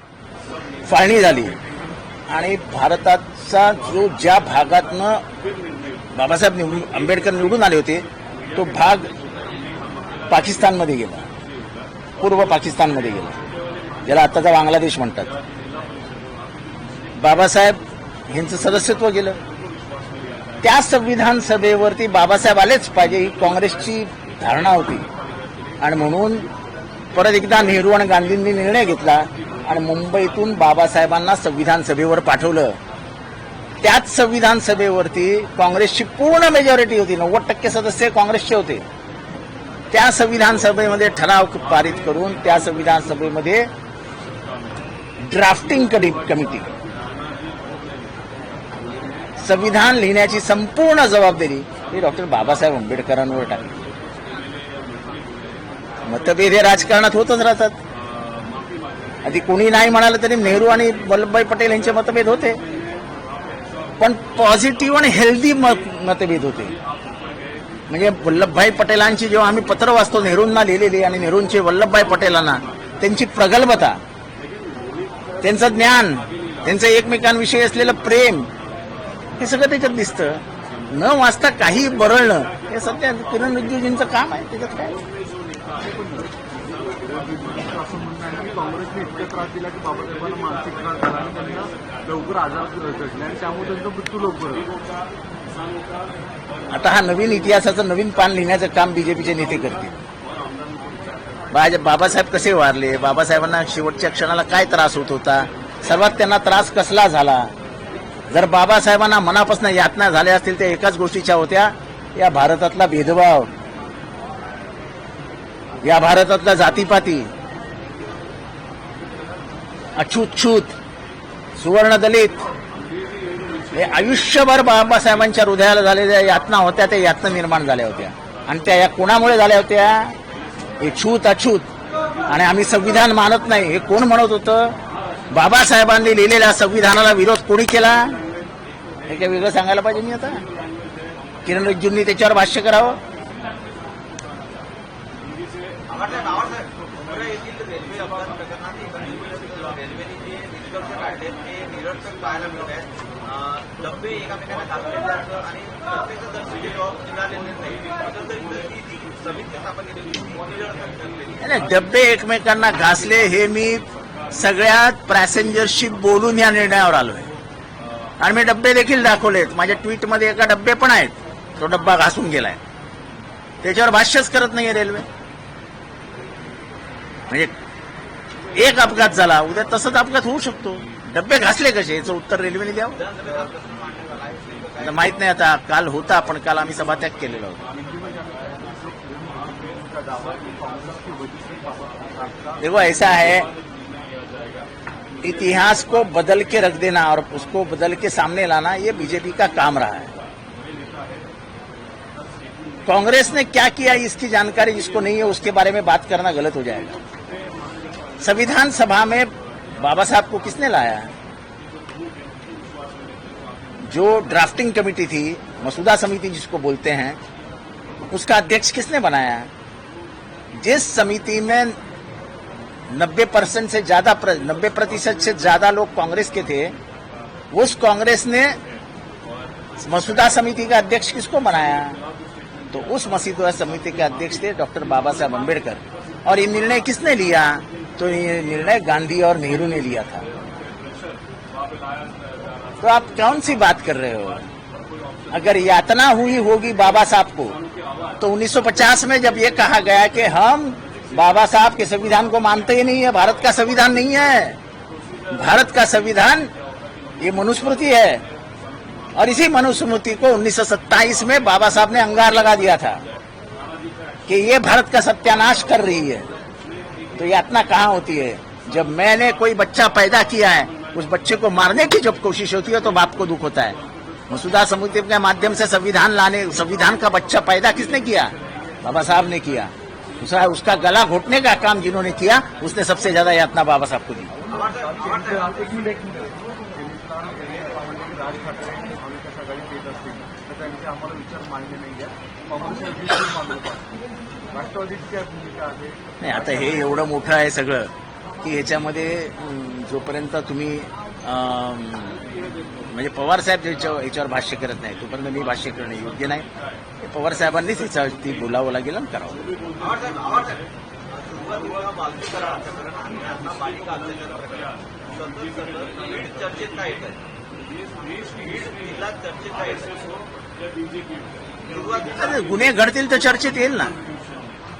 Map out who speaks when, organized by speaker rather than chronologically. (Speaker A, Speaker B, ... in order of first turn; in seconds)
Speaker A: 0.8-1.6, 2.3-5.2, 6.1-9.1, 10.3-11.3, 12.2-13.4, 14.0-15.3, 17.2-19.4, 20.6-25.1, 25.8-26.5, 27.1-32.8, 33.8-38.9, 39.9-43.7, 45.2-46.7, 49.4-53.8, 56.0-57.8, 59.2-62.6, 64.0-66.7, 67.9-74.0, 75.4-78.5, 79.4-85.0, 96.7-100.0, 101.5-107.5, 108.3-113.5, 115.8-117.3, 120.0-120.8, 121.6-122.5, 123.7-130.2, 130.8-131.7, 132.3-134.8, 135.3-138.2, 139.1-140.5, 141.4-143.0, 161.4-167.3, 168.2-172.6, 173.6-175.1, 177.3-177.5, 178.5-183.1, 184.8-187.6, 192.6-193.5, 195.2-200.2, 202.8-207.0, 208.2-211.1, 213.9-217.2, 218.1-219.5, 220.6-221.8, 222.9-226.8, 227.5-228.6, 229.8-232.0, 232.7-240.3, 242.8-244.5, 245.3-247.6, 248.2-254.6, 255.3-256.5, 257.2-258.2, 259.1-263.0, 264.3-266.3, 267.2-273.8, 274.3-284.3, 296.2-302.2, 302.9-306.5, 307.0-309.4, 322.1-324.0
Speaker B: 85.7-86.3, 86.9-94.7, 187.8-192.6, 284.6-294.0, 294.5-296.0
Speaker C: 145.9-161.4, 183.1-184.8, 309.8-317.2, 318.3-320.2, 321.7-322.1